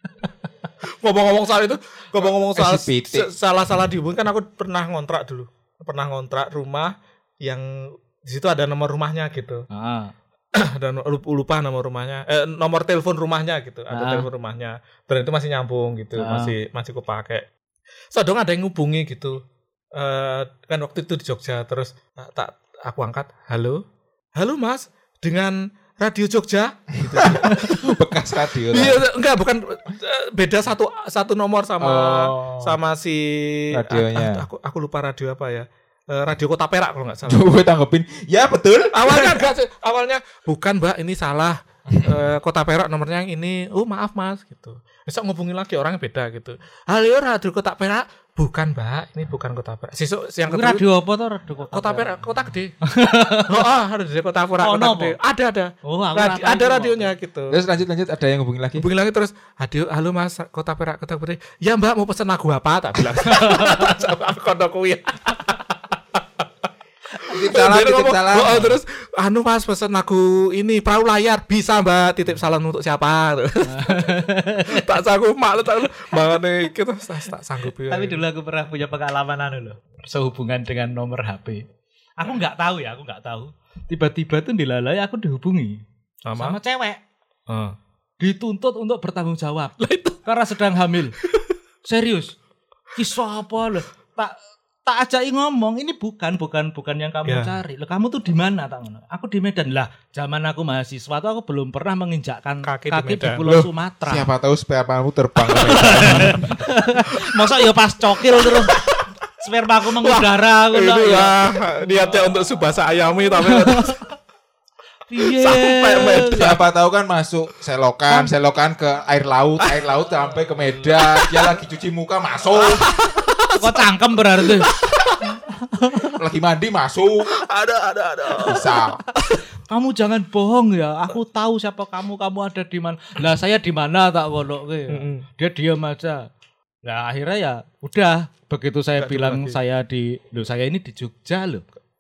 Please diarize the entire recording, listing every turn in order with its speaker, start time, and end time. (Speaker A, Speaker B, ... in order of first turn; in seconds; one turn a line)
Speaker A: 0.8-9.7
Speaker B: 2.5-3.3
Speaker C: 9.7-10.1
Speaker A: 10.5-17.5
Speaker C: 13.9-14.3
Speaker C: 16.2-16.5
Speaker A: 18.1-19.4
Speaker A: 19.9-23.8
Speaker A: 24.4-27.9
Speaker B: 27.0-29.0
Speaker A: 28.7-37.5
Speaker B: 31.8-32.8
Speaker B: 33.7-34.5
Speaker B: 37.2-39.5
Speaker A: 38.9-50.9
Speaker B: 41.9-42.2
Speaker C: 50.5-52.2
Speaker A: 51.7-52.8
Speaker C: 52.8-53.6
Speaker A: 53.5-57.6
Speaker C: 54.6-55.1
Speaker C: 55.8-57.1
Speaker B: 57.5-58.9
Speaker A: 58.8-66.2
Speaker C: 63.3-63.9
Speaker A: 67.2-78.2
Speaker B: 67.2-68.8
Speaker C: 73.6-74.9
Speaker C: 77.8-81.6
Speaker C: 82.2-85.8
Speaker A: 86.2-86.6
Speaker C: 86.3-87.0
Speaker A: 87.5-87.8
Speaker C: 88.2-91.2
Speaker A: 89.8-90.2
Speaker C: 91.8-92.3
Speaker C: 92.9-104.3
Speaker A: 97.2-97.6
Speaker A: 102.6-103.5
Speaker B: 103.4-106.6
Speaker C: 105.5-108.8
Speaker A: 108.4-109.1
Speaker C: 109.4-112.5
Speaker A: 110.0-114.0
Speaker C: 113.3-114.0
Speaker C: 115.1-116.5
Speaker A: 115.2-116.6
Speaker B: 116.3-122.9
Speaker C: 120.1-120.8
Speaker A: 122.5-123.8
Speaker C: 123.5-124.7
Speaker A: 124.4-125.3
Speaker C: 125.2-126.2
Speaker B: 126.2-127.3
Speaker A: 127.3-128.7
Speaker B: 128.4-129.0
Speaker C: 129.7-136.3
Speaker A: 134.9-135.2
Speaker C: 136.8-141.6
Speaker A: 139.0-139.6